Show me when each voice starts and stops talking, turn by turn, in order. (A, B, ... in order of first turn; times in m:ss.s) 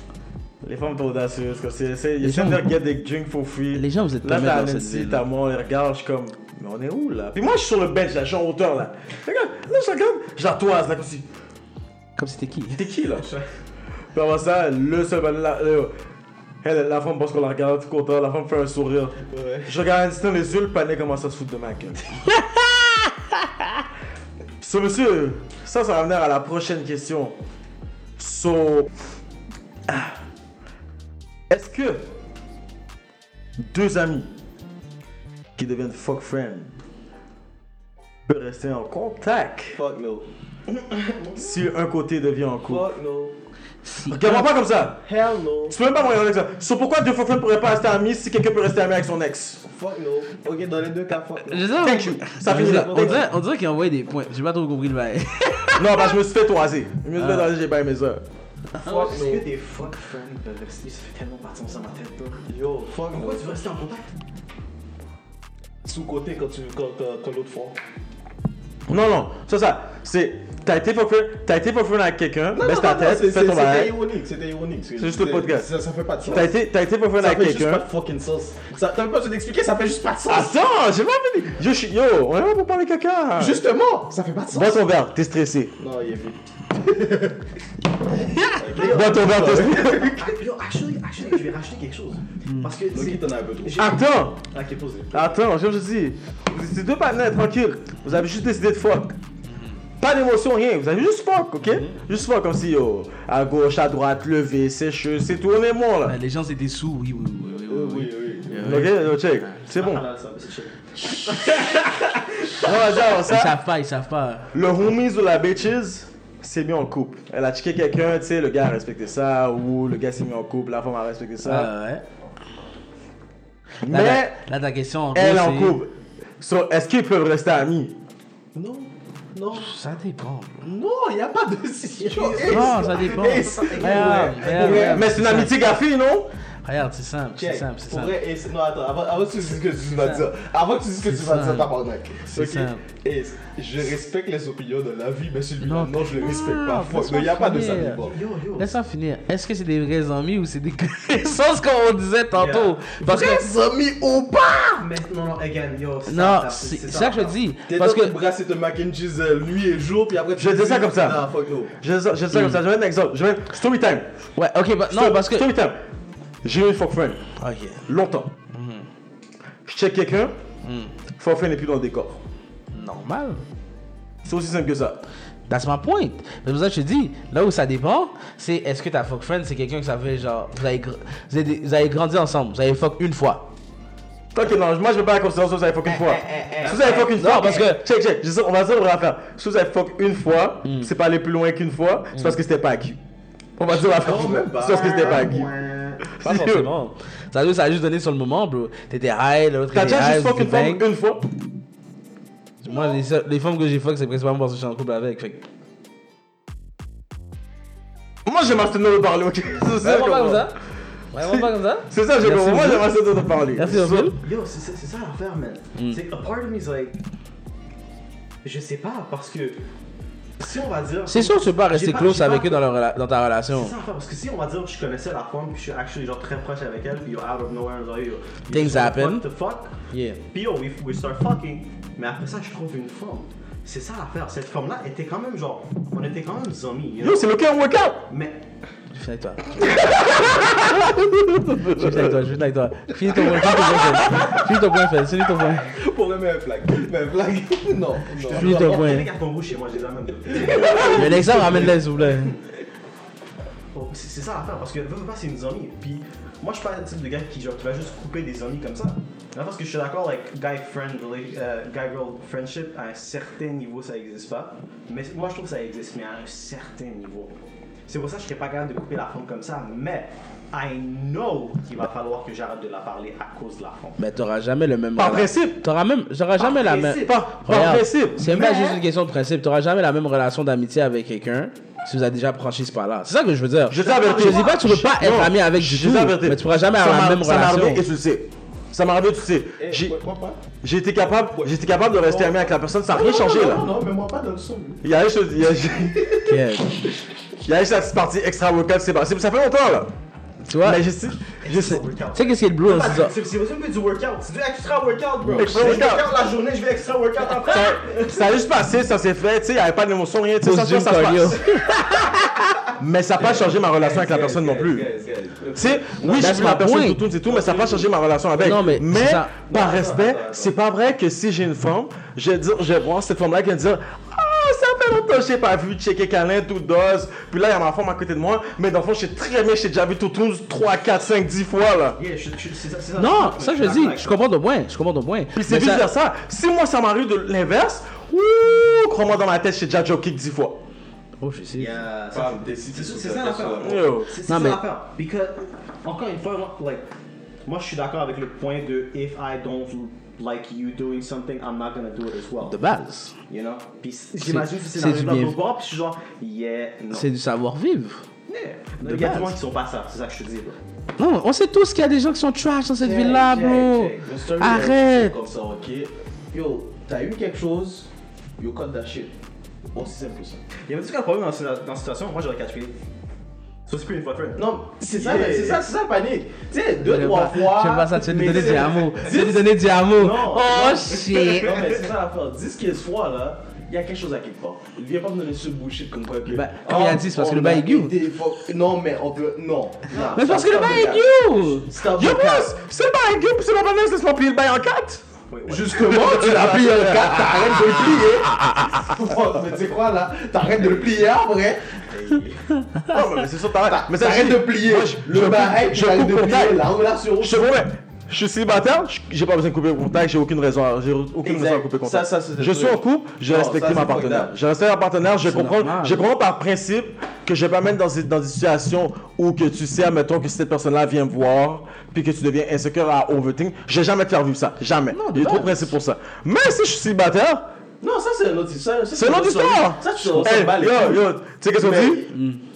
0:00.6-0:11.3 A
0:02.2-0:02.7 B
0:03.7-0:05.2 B
0:12.2-0:12.8 B
0:12.8-0:13.3 A
0:13.2-0:13.5 C
0:14.1-0:15.9 A
0:16.6-0:22.1 A
0:19.3-0:19.7 D
0:22.3-0:23.5 B
0:24.6-0:27.4 A
0:28.2-0:28.9 A
0:29.9-0:30.2 A
0:31.5-0:32.0 A
0:33.6-0:34.3 A
0:35.6-0:36.7 A
0:38.3-0:39.8 A
0:39.7-0:40.3 D
0:40.7-0:41.6 C
0:41.4-0:42.9 A
0:42.6-0:43.4 D
0:43.9-0:44.2 B
0:44.1-0:45.0 A
0:45.0-0:45.8 D
0:45.7-0:49.6 A
0:49.7-0:51.8 D
0:51.4-0:56.1 B
0:51.8-0:53.3 A
0:52.5-0:53.3 D
0:55.8-0:58.2 A
0:57.2-0:57.5 B
0:58.8-1:02.5 C
0:58.8-0:59.5 D
1:02.5-1:03.7 D
1:03.1-1:04.1 C
1:05.8-1:07.8 D
1:08.9-1:14.0 A
1:12.5-1:16.5 D
1:15.0-1:15.7 A
1:16.2-1:17.9 A
1:17.2-1:20.6 D
1:20.3-1:23.6 A
1:23.4-1:24.8 D
1:24.5-1:25.8 A
1:25.8-1:27.4 D
1:28.5-1:30.3 D
1:28.7-1:35.4 C
1:28.8-1:30.2 A
1:32.5-1:32.7 B
1:32.9-1:33.9 D
1:33.8-1:34.4 A
1:35.1-1:39.1 A
1:40.0-1:46.2 A
1:41.7-1:41.9 B
1:46.0-1:49.0 B
1:47.7-1:48.7 D
1:48.6-1:50.0 A
1:49.7-1:52.7 C
1:51.5-1:51.9 A
1:52.6-1:53.6 A
1:53.2-1:54.5 B
1:54.5-2:01.7 A
2:01.4-2:02.0 B
2:03.8-2:04.4 A
2:03.8-2:05.8 B
2:05.1-2:08.0 A
2:08.6-2:09.7 D
2:09.5-2:10.7 B
2:10.6-2:15.2 D
2:12.0-2:15.0 C
2:12.5-2:15.6 B
2:14.6-2:16.3 A
2:16.6-2:18.2 B
2:17.4-2:28.2 D
2:21.0-2:21.7 B
2:22.2-2:22.8 B
2:25.6-2:28.0 B
2:28.0-2:28.7 C
2:28.6-2:33.5 B
2:32.3-2:32.8 C
2:33.0-2:34.9 D
2:34.8-2:37.4 C
2:36.1-2:38.2 B
2:37.7-2:41.8 D
2:40.4-2:41.3 A
2:41.8-2:44.1 A
2:42.3-2:42.6 B
2:44.4-2:45.5 B
2:44.9-2:45.8 A
2:46.4-2:47.2 A
2:47.4-2:47.9 B
2:47.9-2:48.3 A
2:48.5-2:48.9 B
2:49.7-2:50.4 A
2:50.6-2:50.9 B
2:51.2-2:52.2 A
2:52.7-2:53.4 B
2:54.2-2:55.0 A
2:55.5-3:03.4 B
3:04.3-3:13.0 A
3:05.8-3:07.1 D
3:06.6-3:07.2 C
3:07.1-3:07.8 B
3:13.6-3:15.5 A
3:13.7-3:16.0 D
3:16.0-3:16.7 A
3:16.2-3:20.8 B
3:19.7-3:21.2 A
3:22.6-3:25.4 B
3:28.2-3:30.5 A
3:29.8-3:30.6 B
3:31.1-3:33.0 B
3:31.2-3:34.1 A
3:33.6-3:34.2 B
3:33.9-3:37.0 C
3:38.4-3:39.6 C
3:40.4-3:42.6 C
3:41.1-3:43.7 B
3:43.5-3:49.8 C
3:48.5-3:49.2 B
3:49.9-3:50.2 B
3:50.3-3:57.3 C
3:57.0-3:58.0 A
3:58.1-3:58.4 C
3:58.9-3:59.6 B
3:59.6-4:02.2 A
4:01.6-4:05.8 B
4:03.4-4:04.3 A
4:03.5-4:04.4 D
4:05.4-4:08.8 D
4:08.2-4:12.4 C
4:08.3-4:09.1 B
4:10.3-4:11.8 D
4:10.6-4:12.4 B
4:13.7-4:27.3 C
4:27.9-4:34.0 C
4:34.0-4:47.8 B
4:35.0-4:35.6 A
4:36.4-4:37.2 C
4:37.0-4:38.2 A
4:38.2-4:38.8 C
4:43.7-4:50.0 A
4:43.7-4:44.6 C
4:49.6-4:50.4 D
4:50.6-4:53.7 A
4:51.4-4:54.8 D
4:54.8-4:56.2 A
4:56.0-4:56.2 D
4:56.2-4:56.8 B
4:57.4-4:59.9 A
5:00.5-5:00.8 B
5:00.6-5:01.8 A
5:01.4-5:08.3 C
5:02.1-5:03.1 B
5:05.3-5:06.2 A
5:07.4-5:11.5 A
5:10.4-5:12.6 B
5:12.8-5:14.9 A
5:13.2-5:16.4 D
5:15.6-5:32.0 A
5:16.1-5:17.0 B
5:17.2-5:17.9 D
5:18.4-5:19.3 B
5:19.5-5:20.5 C
5:32.0-5:34.2 C
5:33.0-5:35.9 B
5:35.3-5:40.6 A
5:41.2-5:41.9 B
5:41.6-5:46.9 C
5:42.1-5:43.9 D
5:43.6-5:44.2 A
5:44.3-5:44.6 B
5:47.5-5:52.6 C
5:52.4-5:53.2 B
5:53.3-5:57.1 C
5:54.2-5:55.4 B
5:56.9-5:58.0 B
5:58.3-6:00.6 C
5:58.8-5:59.4 B
6:01.0-6:05.2 B
6:02.8-6:07.9 D
6:08.4-6:09.1 D
6:09.7-6:10.4 D
6:10.6-6:12.8 C
6:13.7-6:15.6 C
6:14.4-6:19.0 D
6:16.8-6:21.6 B
6:18.2-6:22.0 C
6:21.1-6:32.5 D
6:26.3-6:27.9 B
6:29.9-6:30.8 C
6:30.1-6:31.7 B
6:31.8-6:35.0 A
6:35.3-6:36.2 C
6:35.5-6:42.4 D
6:35.7-6:38.8 A
6:42.8-6:46.7 A
6:43.6-6:47.6 D
6:47.2-7:07.5 A
6:51.2-6:54.3 D
6:55.2-6:56.1 B
7:04.9-7:05.7 B
7:07.8-7:12.1 D
7:08.9-7:12.1 A
7:12.1-7:12.4 B